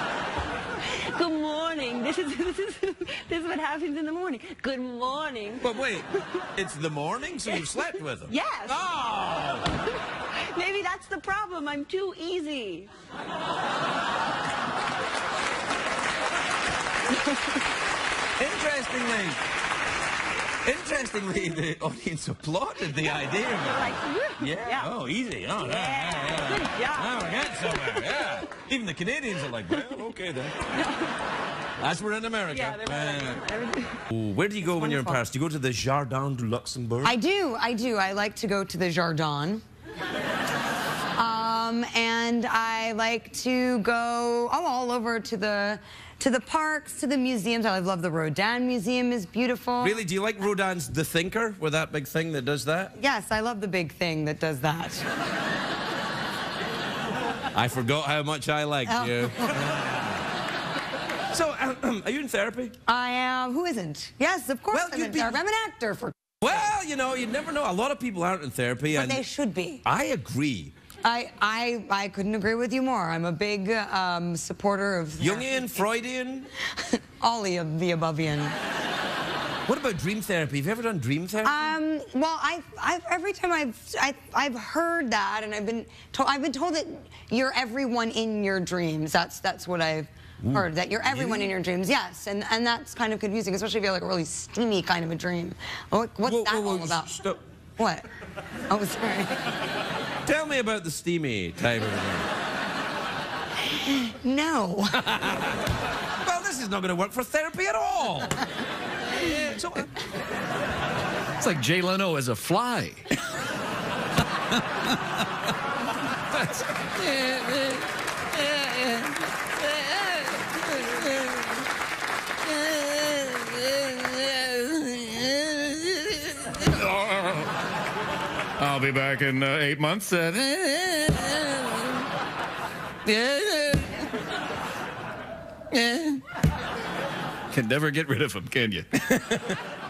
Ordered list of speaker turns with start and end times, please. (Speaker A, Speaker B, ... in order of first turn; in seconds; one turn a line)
Speaker A: 0.8-5.8
Speaker B: 5.6-9.7
Speaker A: 8.3-8.8
Speaker A: 10.3-12.9
Speaker A: 17.1-17.6
Speaker B: 18.4-19.4
Speaker B: 20.6-30.6
Speaker A: 23.1-24.9
Speaker A: 25.6-28.4
Speaker A: 30.7-31.1
Speaker B: 31.8-33.4
Speaker A: 32.5-34.0
Speaker B: 34.1-37.2
Speaker A: 34.8-35.2
Speaker C: 37.0-39.6
Speaker C: 41.1-49.9
Speaker B: 49.8-52.9
Speaker C: 53.0-55.0
Speaker B: 57.5-60.2
Speaker C: 58.9-59.6
Speaker B: 61.3-62.7
Speaker C: 62.9-66.1
Speaker B: 64.7-65.4
Speaker B: 66.4-69.2
Speaker C: 68.9-69.8
Speaker B: 69.8-70.7
Speaker C: 71.0-75.9
Speaker B: 75.2-76.5
Speaker C: 77.2-78.5
Speaker B: 79.7-81.8
Speaker C: 81.5-97.1
Speaker B: 90.4-91.5
Speaker B: 96.2-97.4
Speaker C: 98.7-99.2
Speaker B: 100.2-102.3
Speaker C: 104.2-104.8
Speaker B: 104.9-105.6
Speaker B: 106.2-108.4
Speaker B: 109.2-109.9
Speaker D: 111.4-113.1
Speaker B: 116.3-117.0
Speaker D: 126.6-127.5
Speaker D: 128.6-131.5
Speaker D: 133.1-133.8
Speaker D: 135.7-136.2
Speaker D: 137.5-139.5